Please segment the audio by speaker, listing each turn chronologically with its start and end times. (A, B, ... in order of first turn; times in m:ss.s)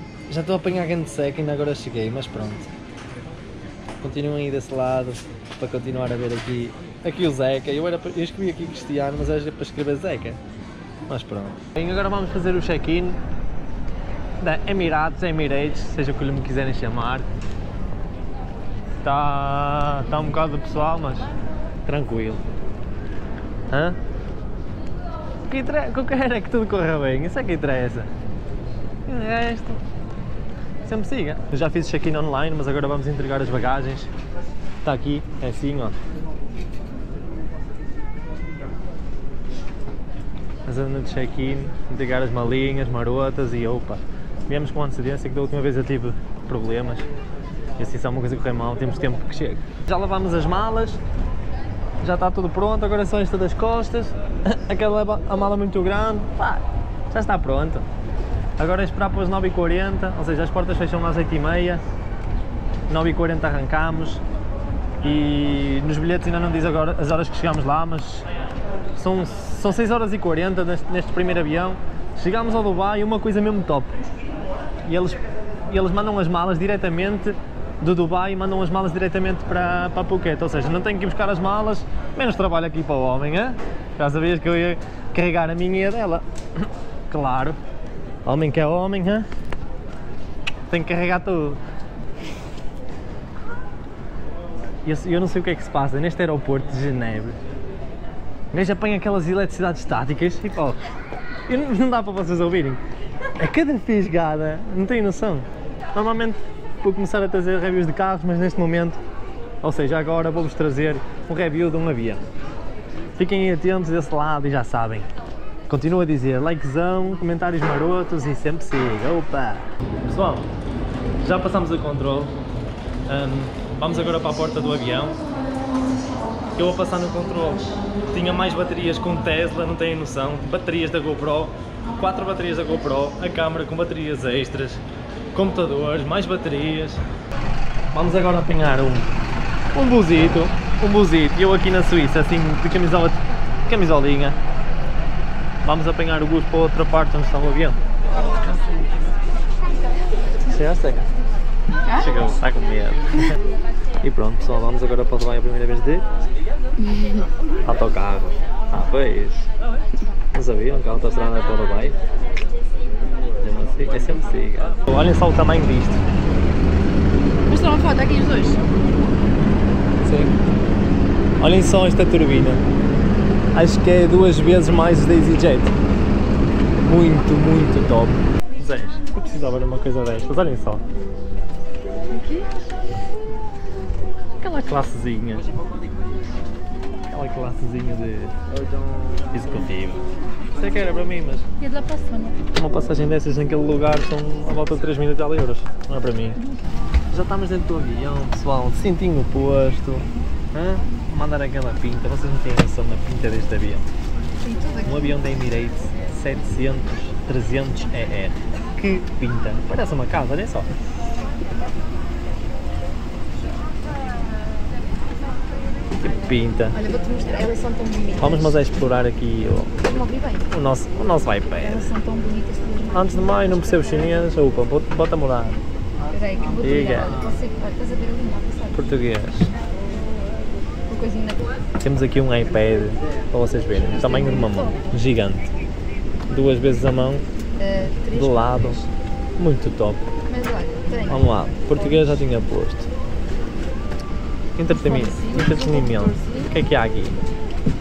0:00.3-0:02.7 A
0:04.0-0:10.4 A
0:11.0-0:13.2 A
0:14.4-0:17.3 A
0:19.0-0:21.3 A
0:21.8-0:22.4 A
0:23.7-0:24.0 A
0:25.5-0:28.1 A
0:29.0-0:29.8 A
0:30.8-0:34.1 A
0:34.8-0:36.0 A
0:40.6-0:47.0 A
0:47.8-0:51.0 A
0:52.0-0:57.8 A
0:58.6-1:01.8 A
1:02.9-1:04.2 A
1:05.0-1:08.3 A
1:08.9-1:14.0 A
1:14.8-1:26.2 A
1:27.1-1:27.6 A
1:28.2-1:29.2 A
1:30.7-1:31.6 A
1:34.8-1:37.4 A
1:38.5-1:40.8 A
1:41.5-1:42.8 A
1:43.4-1:49.0 A
1:49.6-1:52.2 A
1:53.2-1:55.1 A
1:55.7-2:00.5 A
2:01.2-2:02.4 A
2:03.1-2:05.2 A
2:06.6-2:14.8 A
2:15.3-2:17.0 A
2:17.9-2:19.1 A
2:19.7-2:24.4 A
2:25.6-2:27.8 A
2:30.4-2:31.1 A
2:31.9-2:33.3 A
2:34.0-2:36.0 A
2:37.6-2:39.4 A
2:40.3-2:42.0 A
2:43.4-2:46.0 A
2:47.5-2:48.6 B
2:50.0-2:50.4 A
2:51.4-2:52.6 A
2:53.5-2:55.7 A
2:56.8-3:00.8 A
3:02.1-3:02.5 B
3:04.4-3:05.4 A
3:07.1-3:08.4 A
3:09.3-3:11.5 A
3:11.6-3:12.4 B
3:12.5-3:16.4 A
3:17.1-3:23.9 A
3:24.4-3:24.9 B
3:24.8-3:30.7 A
3:36.0-3:36.8 A
3:36.8-3:38.6 B
3:38.2-3:39.8 A
3:39.8-3:40.5 B
3:40.5-3:42.0 A
3:41.6-3:43.9 B
3:42.9-3:45.6 A
3:46.1-3:48.8 B
3:46.6-3:47.3 A
3:48.7-3:49.5 A
3:50.9-3:51.4 B
3:51.8-3:55.5 A
3:54.1-3:54.6 B
3:56.3-3:57.2 A
3:57.6-3:58.8 B
3:58.1-3:58.8 A
3:59.4-4:00.1 A
4:00.3-4:01.2 B
4:01.0-4:02.9 A
4:04.6-4:07.2 A
4:04.7-4:06.5 B